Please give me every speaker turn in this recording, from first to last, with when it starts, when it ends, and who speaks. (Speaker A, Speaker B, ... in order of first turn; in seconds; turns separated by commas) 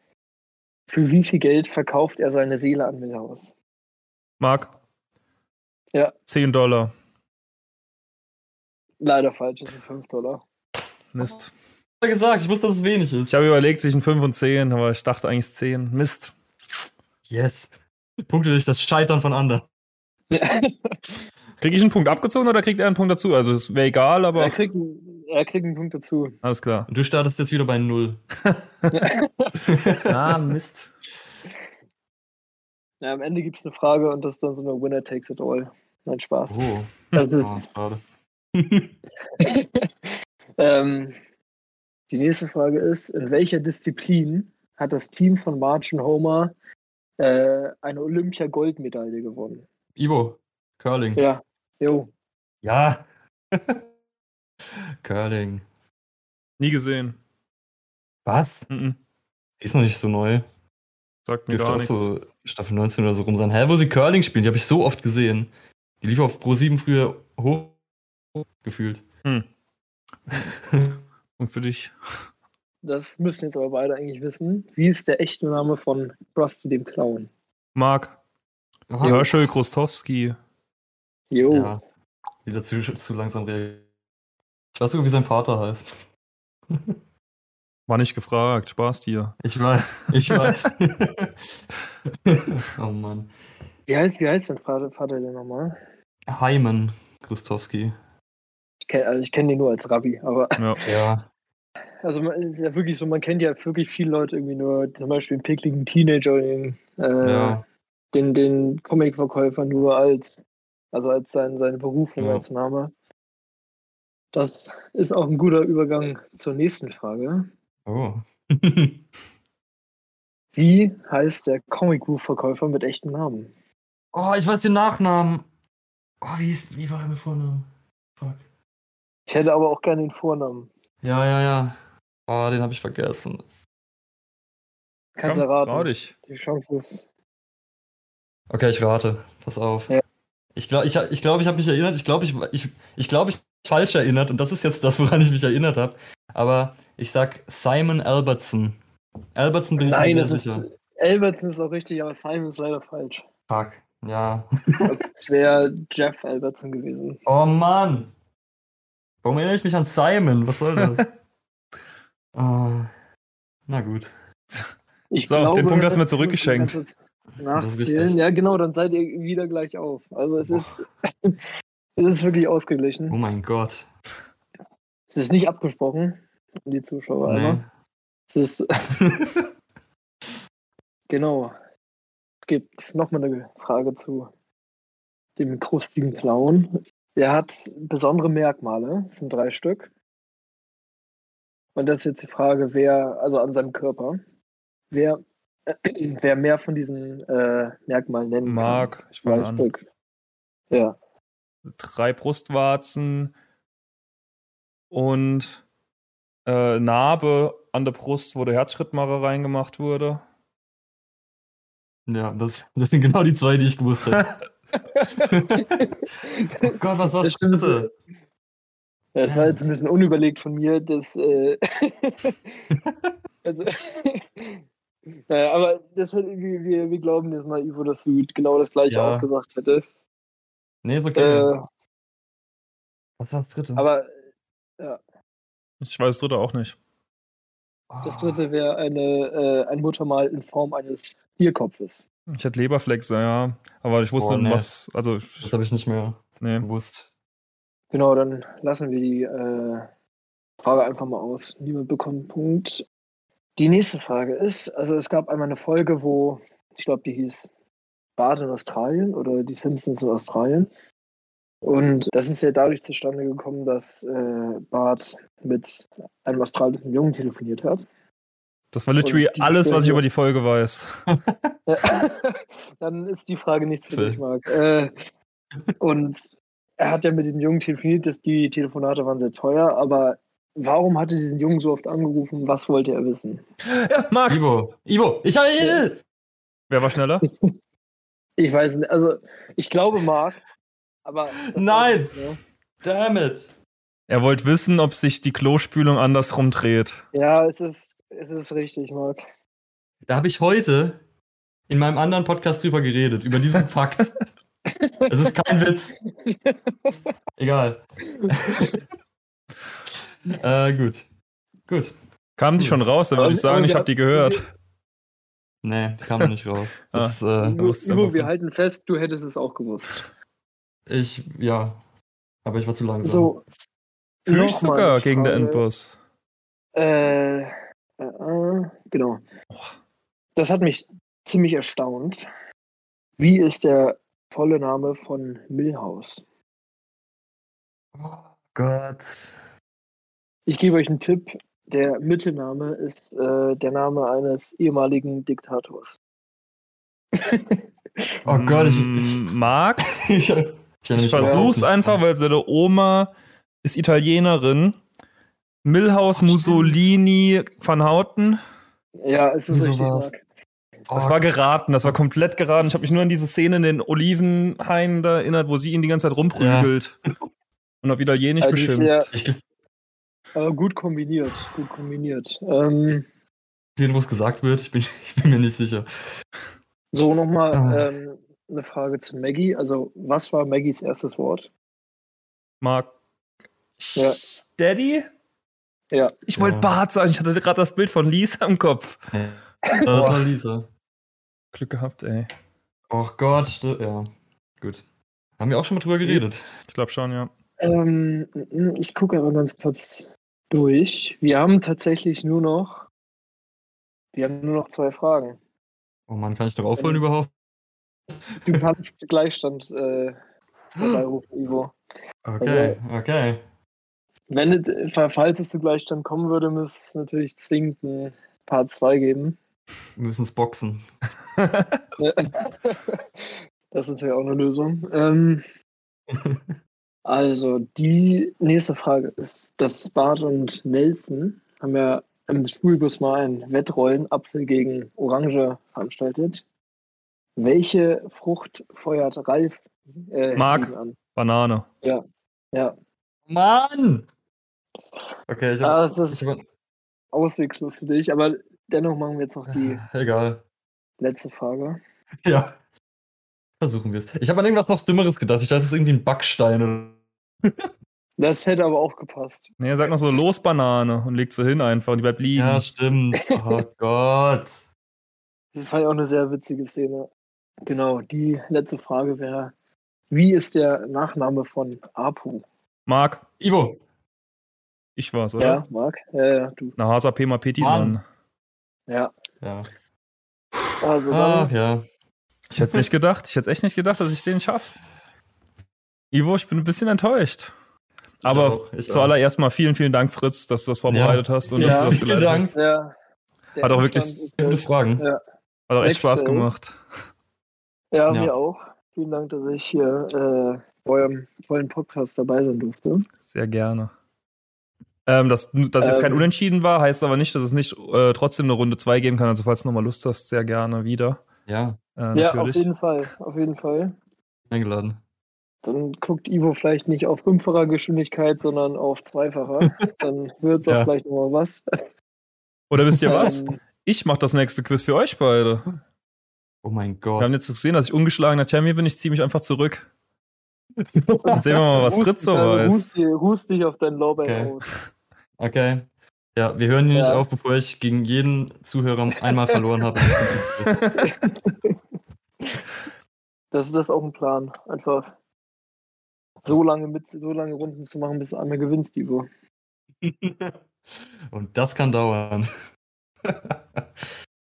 Speaker A: 0.9-3.5, Speaker B: 4.4-4.7, Speaker B: 6.3-6.9, Speaker A: 9.0-10.4, Speaker B: 11.1-11.5, Speaker C: 12.0-13.3, Speaker B: 13.3-16.4, Speaker C: 17.3-17.7, Speaker C: 18.3-19.6, Speaker A: 20.3-21.2, Speaker B: 21.6-24.6, Speaker A: 24.3-26.4, Speaker B: 26.4-26.9, Speaker C: 26.9-28.2, Speaker B: 28.5-28.9, Speaker A: 28.9-29.6, Speaker C: 29.7-30.1, Speaker B: 30.0-30.9, Speaker A: 33.0-37.6, Speaker C: 36.5-38.0, Speaker C: 38.5-38.9, Speaker A: 39.4-39.9, Speaker A: 40.6-41.1, Speaker A: 42.1-46.5, Speaker A: 47.2-49.6, Speaker C: 50.0-51.2, Speaker A: 51.2-52.1, Speaker C: 52.6-53.8, Speaker C: 55.0-55.6, Speaker B: 56.6-57.2, Speaker C: 58.2-58.7, Speaker B: 58.7-59.0, Speaker C: 59.6-60.4, Speaker B: 61.2-62.1, Speaker C: 61.5-65.5, Speaker C: 66.0-67.8, Speaker C: 68.6-69.0, Speaker C: 70.3-71.0, Speaker B: 71.4-71.9, Speaker A: 72.8-77.3, Speaker B: 77.7-78.2, Speaker C: 78.9-79.3, Speaker B: 79.0-80.3, Speaker A: 79.0-79.3, Speaker A: 81.3-81.8, Speaker C: 81.5-81.8, Speaker C: 82.4-83.8, Speaker C: 84.7-86.0, Speaker B: 87.9-89.4, Speaker C: 89.4-91.3, Speaker C: 92.2-93.3, Speaker A: 93.9-95.8, Speaker C: 96.3-97.9, Speaker A: 98.8-100.9, Speaker C: 100.8-101.3, Speaker A: 102.0-107.6, Speaker C: 107.2-107.6, Speaker A: 108.1-112.9, Speaker C: 112.2-112.4, Speaker A: 114.3-117.5, Speaker C: 117.9-119.0, Speaker A: 120.5-123.5, Speaker C: 124.1-125.4, Speaker C: 126.2-128.4, Speaker A: 129.3-130.7, Speaker C: 131.0-131.8, Speaker C: 132.3-133.4, Speaker A: 135.2-137.0, Speaker B: 135.2-136.1, Speaker C: 138.5-139.9, Speaker C: 140.5-148.8, Speaker C: 149.3-150.7, Speaker A: 149.8-153.2, Speaker C: 153.5-154.5, Speaker A: 154.8-157.2, Speaker C: 157.2-158.1, Speaker C: 159.2-161.0, Speaker C: 162.3-162.9, Speaker C: 163.7-164.1, Speaker A: 165.1-171.4, Speaker B: 165.3-166.8, Speaker C: 167.5-168.2, Speaker A: 172.0-173.2, Speaker C: 173.1-173.8, Speaker A: 175.1-177.6, Speaker C: 177.2-177.7, Speaker A: 178.3-178.8, Speaker C: 179.0-179.4, Speaker A: 181.1-181.5, Speaker A: 182.4-184.3, Speaker A: 185.4-189.9, Speaker A: 191.7-194.2, Speaker A: 194.9-199.8, Speaker B: 198.4-199.7, Speaker B: 201.8-203.3, Speaker B: 204.9-205.6, Speaker B: 206.4-210.2, Speaker C: 212.1-214.3, Speaker A: 214.9-215.9, Speaker C: 215.3-215.6, Speaker A: 216.4-217.9, Speaker C: 216.6-217.9, Speaker A: 219.1-222.3, Speaker C: 219.2-219.6, Speaker A: 223.4-224.6, Speaker A: 225.3-229.8, Speaker C: 228.9-229.3, Speaker C: 230.8-231.5, Speaker A: 231.2-231.6, Speaker C: 233.2-233.8, Speaker A: 233.8-234.1, Speaker B: 235.8-236.8, Speaker C: 237.9-238.4, Speaker A: 238.0-242.0, Speaker B: 242.3-245.5, Speaker C: 244.2-244.7, Speaker C: 245.4-247.1, Speaker B: 246.4-246.7, Speaker A: 247.9-249.8, Speaker A: 250.6-252.8, Speaker A: 253.6-257.5, Speaker A: 258.2-260.7, Speaker A: 261.6-267.8, Speaker B: 268.7-270.9, Speaker A: 269.0-270.0, Speaker C: 271.1-271.5, Speaker A: 271.7-274.9, Speaker C: 273.9-274.2, Speaker A: 275.8-283.4, Speaker B: 283.6-284.4, Speaker C: 284.3-286.0, Speaker A: 285.6-285.8, Speaker B: 286.7-287.2, Speaker A: 288.4-290.4, Speaker A: 291.0-292.4, Speaker C: 291.5-292.2, Speaker C: 292.8-293.5, Speaker B: 294.1-297.0, Speaker A: 297.1-299.2, Speaker C: 300.1-301.0, Speaker C: 301.7-304.1, Speaker C: 305.1-305.9, Speaker A: 306.2-307.0, Speaker C: 307.4-308.7, Speaker A: 308.3-308.8, Speaker C: 310.3-311.0, Speaker C: 311.7-311.9, Speaker B: 312.4-314.4, Speaker C: 312.5-312.8, Speaker A: 313.1-314.4, Speaker C: 315.6-317.6, Speaker B: 316.9-318.3, Speaker A: 317.4-320.1, Speaker C: 320.9-321.8, Speaker C: 322.4-323.3, Speaker A: 323.0-323.4, Speaker A: 324.2-325.6, Speaker B: 324.3-325.9, Speaker A: 326.7-329.2, Speaker A: 330.4-332.2, Speaker A: 333.2-336.2, Speaker C: 337.9-339.4, Speaker A: 340.5-346.0, Speaker A: 347.2-347.6, Speaker C: 348.2-349.2, Speaker B: 348.3-349.9, Speaker C: 350.0-352.0, Speaker B: 350.9-353.1, Speaker A: 351.2-351.5, Speaker B: 353.6-354.8, Speaker B: 355.6-358.4, Speaker C: 356.1-356.8, Speaker A: 359.0-360.2, Speaker C: 359.5-360.1, Speaker C: 360.9-361.3, Speaker B: 360.9-366.9, Speaker C: 366.3-366.7, Speaker B: 367.8-369.0, Speaker A: 368.4-369.1, Speaker C: 369.1-369.4, Speaker A: 370.3-373.0, Speaker C: 373.8-375.9, Speaker A: 376.9-381.5, Speaker C: 377.5-377.9, Speaker B: 382.6-382.9, Speaker B: 383.8-385.1, Speaker B: 386.3-389.0, Speaker C: 386.4-386.7, Speaker C: 389.1-390.6, Speaker A: 389.8-390.2, Speaker B: 391.5-392.3, Speaker C: 392.9-394.1, Speaker C: 395.4-396.4, Speaker B: 396.7-397.3, Speaker A: 397.6-402.9, Speaker A: 404.1-405.4, Speaker C: 406.1-407.3, Speaker A: 406.8-407.1, Speaker A: 408.4-410.1, Speaker A: 410.7-411.8, Speaker C: 412.2-413.4, Speaker A: 412.4-412.8, Speaker A: 414.3-419.4, Speaker C: 419.9-420.8, Speaker B: 421.4-421.7, Speaker A: 422.0-425.4, Speaker C: 426.1-426.4, Speaker A: 427.0-436.4, Speaker A: 437.4-440.9, Speaker B: 440.4-441.6, Speaker C: 443.3-444.1, Speaker C: 445.3-446.4, Speaker A: 445.6-446.3, Speaker A: 447.1-449.8, Speaker C: 449.5-450.4, Speaker A: 451.0-451.8, Speaker C: 452.2-452.5, Speaker C: 453.6-457.5, Speaker A: 458.2-459.6, Speaker B: 459.6-462.6, Speaker C: 462.3-464.7, Speaker A: 465.5-467.1, Speaker A: 467.6-469.5, Speaker A: 470.1-472.4, Speaker B: 472.9-473.2, Speaker C: 473.4-473.8, Speaker B: 474.9-475.6, Speaker A: 475.4-476.8, Speaker B: 476.8-478.0, Speaker C: 477.6-478.0, Speaker C: 479.4-479.7, Speaker A: 480.8-481.5, Speaker C: 481.1-481.8, Speaker B: 482.5-484.8, Speaker B: 486.1-487.5, Speaker C: 488.2-489.1, Speaker B: 488.2-492.5, Speaker C: 490.9-492.5, Speaker A: 491.6-492.0, Speaker A: 492.5-492.9, Speaker A: 493.6-495.2, Speaker B: 493.6-494.3, Speaker C: 494.4-495.0, Speaker B: 495.7-496.8, Speaker A: 495.8-496.5, Speaker A: 497.9-503.1, Speaker B: 503.2-503.9, Speaker B: 505.1-511.2, Speaker A: 505.8-506.3, Speaker C: 511.5-511.8, Speaker B: 512.0-512.7, Speaker A: 512.1-513.9, Speaker C: 514.5-515.0, Speaker A: 515.6-521.6, Speaker B: 522.7-525.7, Speaker C: 522.9-523.2, Speaker A: 523.0-523.6, Speaker C: 526.6-527.3, Speaker B: 527.2-529.9, Speaker A: 531.2-534.7, Speaker B: 531.3-532.9, Speaker C: 534.2-534.6, Speaker C: 535.4-540.7, Speaker A: 536.9-537.3, Speaker B: 540.7-541.0, Speaker A: 541.0-541.6, Speaker A: 543.5-545.1, Speaker A: 546.4-549.3, Speaker C: 550.0-550.5, Speaker C: 551.3-552.5, Speaker C: 553.2-553.8